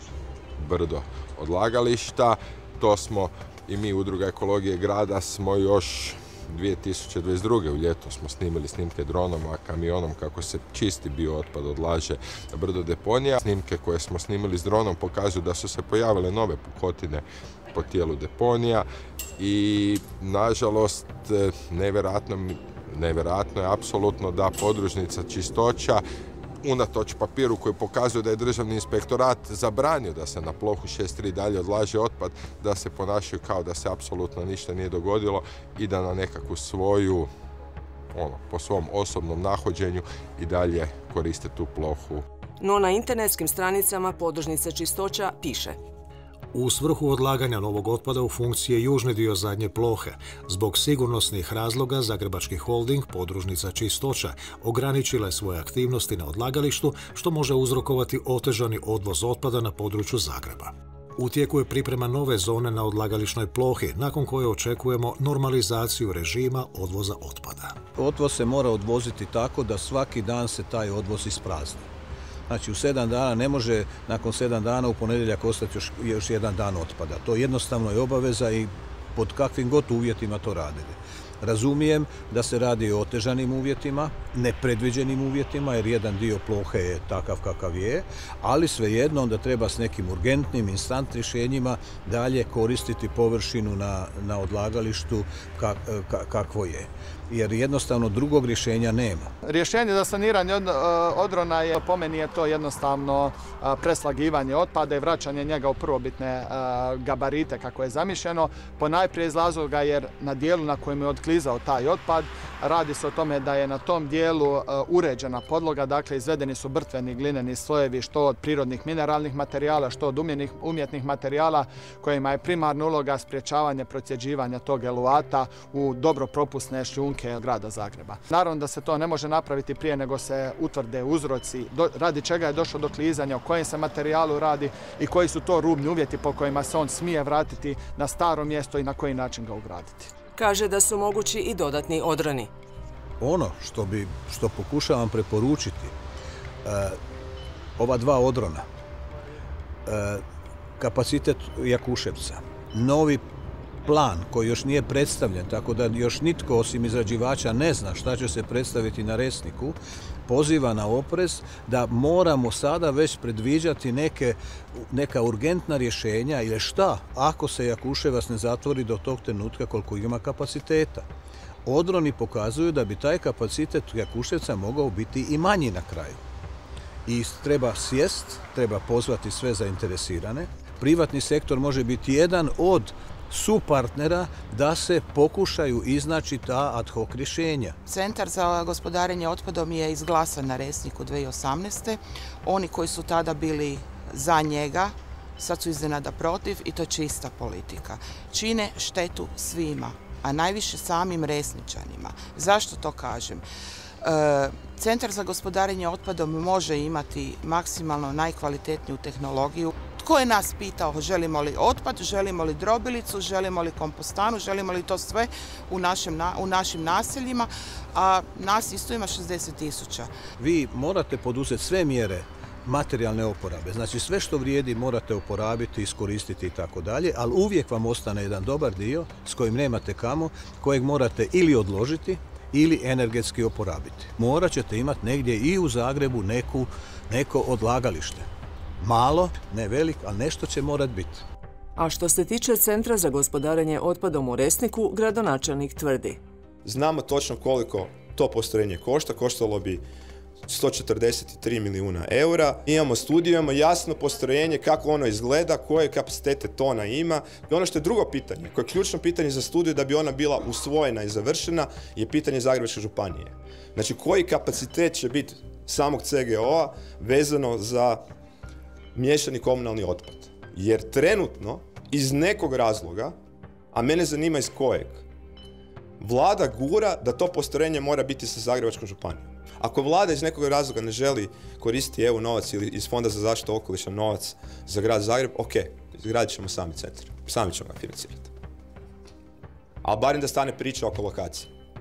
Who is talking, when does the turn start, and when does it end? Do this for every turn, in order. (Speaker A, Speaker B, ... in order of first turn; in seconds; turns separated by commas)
Speaker A: 0.6-18.9, Speaker A: 19.4-26.0, Speaker A: 26.6-37.3, Speaker A: 38.1-42.2, Speaker B: 42.6-45.8, Speaker C: 46.5-67.8, Speaker D: 68.0-71.9, Speaker D: 72.5-99.3, Speaker E: 99.4-140.1, Speaker B: 140.3-142.5, Speaker D: 143.2-145.9, Speaker D: 146.6-147.0, Speaker D: 147.8-148.6, Speaker D: 149.8-150.2, Speaker D: 150.8-153.2, Speaker D: 153.8-171.1, Speaker D: 171.7-176.2, Speaker D: 177.1-187.8, Speaker F: 187.8-203.4, Speaker F: 204.0-220.1, Speaker D: 220.4-238.2, Speaker D: 238.8-241.2, Speaker B: 241.8-246.2, Speaker G: 246.6-249.8, Speaker G: 250.4-268.0, Speaker G: 268.9-273.1, Speaker G: 273.7-275.0, Speaker G: 276.0-288.3, Speaker G: 289.8-291.5